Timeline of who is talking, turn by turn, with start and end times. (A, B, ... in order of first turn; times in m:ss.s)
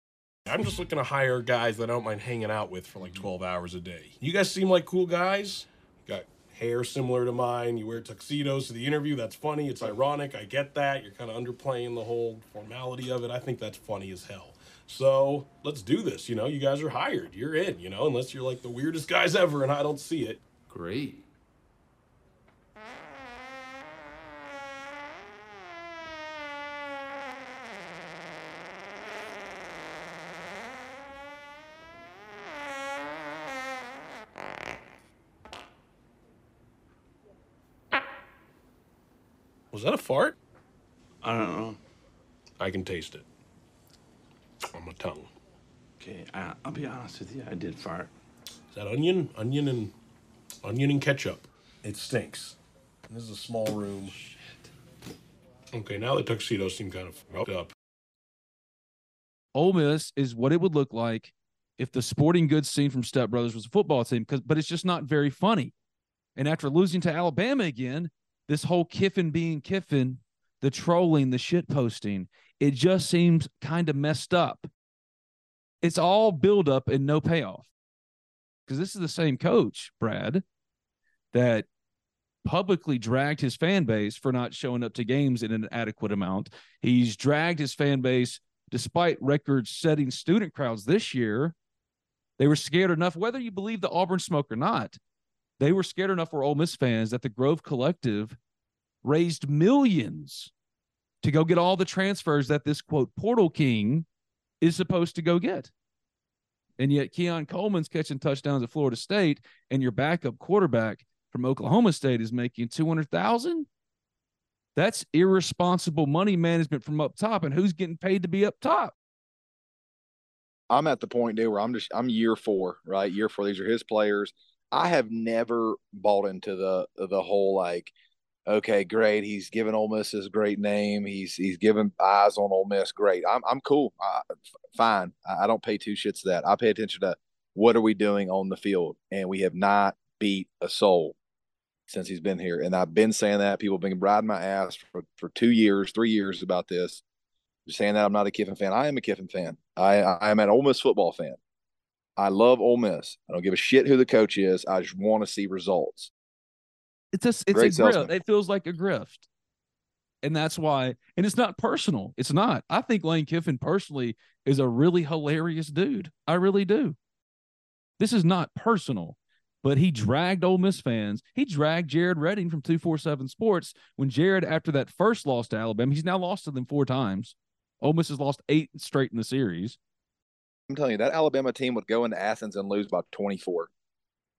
0:00.4-0:20.4 A
0:20.7-0:21.2 B
0:39.7-0:40.4 A
0:41.2-0:41.8 B
0:42.6-0:43.2 A
0:44.7-0:45.3 A
0:46.0-0:48.1 B
0:48.7-0:49.9 A
0:50.6-0:52.6 A
0:53.1-0:54.3 A
0:55.7-0:57.7 A
0:59.5-1:05.7 C
1:06.4-1:14.7 C
1:15.8-1:17.7 C
1:18.7-1:20.4 C
1:21.3-1:21.7 C
1:22.4-1:31.6 C
1:32.4-1:35.0 C
1:35.6-1:38.4 C
1:39.0-1:40.5 C
1:41.2-1:44.0 C
1:44.6-1:45.7 C
1:46.8-1:53.7 C
1:54.7-1:58.9 C
2:00.7-2:07.9 D
2:08.5-2:14.2 D
2:14.8-2:21.2 D
2:21.9-2:27.0 D
2:27.6-2:31.4 D
2:32.2-2:36.1 D
2:37.1-2:39.2 C
2:37.5-2:38.1 D
2:40.2-2:47.0 C
2:48.0-2:59.8 C
3:00.7-3:03.7 D